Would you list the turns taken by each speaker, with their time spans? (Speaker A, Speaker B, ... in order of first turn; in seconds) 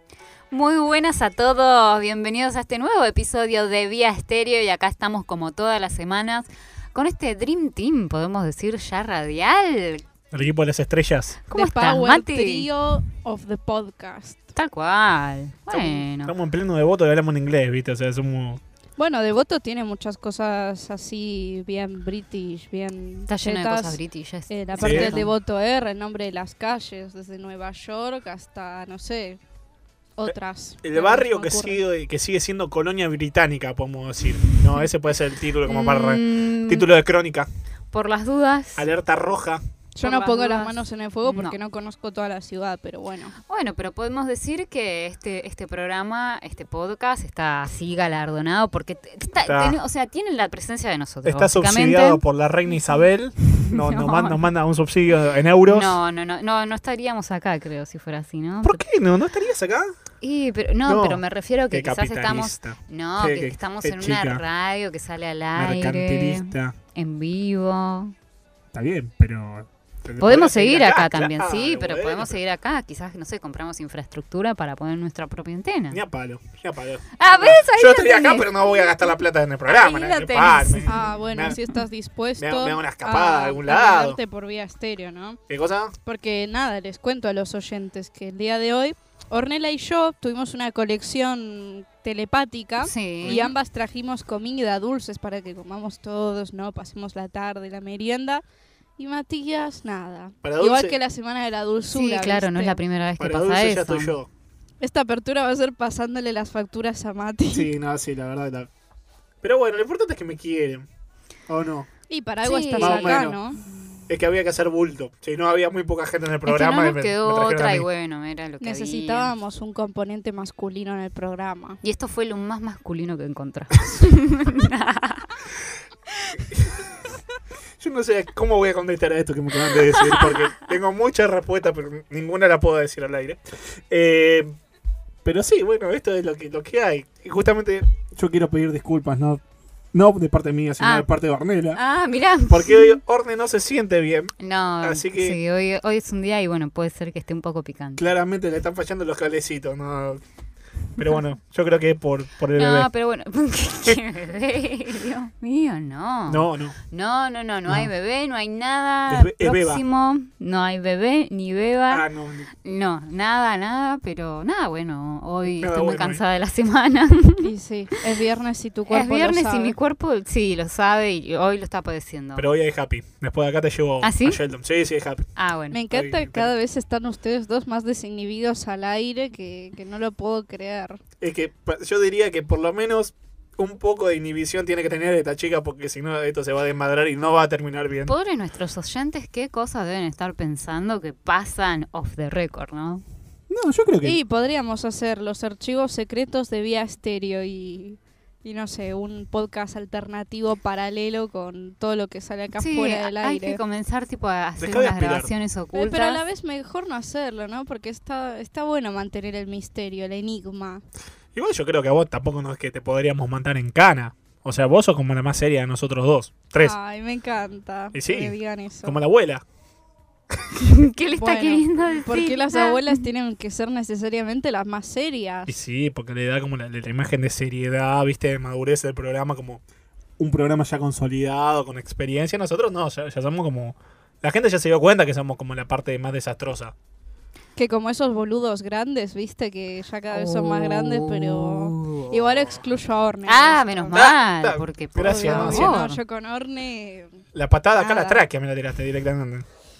Speaker A: 0.5-10.1, 11.5-12.7, 14.6-16.4, 23.3-25.3, 34.5-34.9, 35.6-36.9, 37.9-38.9, 40.0-41.6, 43.5-52.9, 53.7-54.5, 55.6-58.8, 60.2-68.2, 70.2-76.0, 77.2-79.0, 92.8-93.5, 101.9-104.2, 112.4-113.3, 116.5-119.3, 121.8-125.4, 130.0-130.4, 140.8-141.1, 141.7-143.0, 144.4-148.1, 152.6-162.1, 162.7-167.5, 168.9-172.5, 174.0-174.4, 175.4-175.8, 188.1-193.0, 202.6-206.2, 220.6-223.1, 240.1-242.2, 243.3-246.0
Speaker B: 10.3-11.4, 15.7-18.6, 24.8-25.2, 30.3-37.5, 38.8-39.6, 49.5-49.8, 51.2-56.0, 58.6-59.9, 60.9-64.4, 65.5-66.8, 68.7-72.4, 75.9-81.6, 82.4-84.2, 85.5-86.0, 93.2-93.5, 100.4-101.0, 103.2-104.3, 107.5-108.7, 109.4-110.9, 111.5-111.9, 112.8-113.4, 114.1-117.9, 126.5-126.8, 127.8-134.5, 135.2-139.4, 139.9-141.8, 142.5-145.4, 148.0-150.2, 151.0-152.9, 156.3-156.8, 159.1-159.8, 161.9-162.5, 165.6-166.2, 172.4-175.3, 175.9-176.5, 181.2-188.1, 193.5-194.2, 204.6-205.3, 211.3-216.8, 217.9-219.4, 225.5-229.6, 230.2-236.7, 243.9-245.8, 247.3-249.5
Speaker C: 11.5-14.5, 19.0-29.4, 30.2-31.8, 40.0-43.3, 79.7-85.4, 86.0-98.4, 99.0-102.8, 104.8-107.7, 112.1-113.6, 118.6-121.8, 167.4-169.8, 175.7-181.0, 194.0-203.6, 205.7-210.8, 216.6-219.0, 221.1-225.5, 237.6-244.0, 245.0-247.2, 247.8-248.2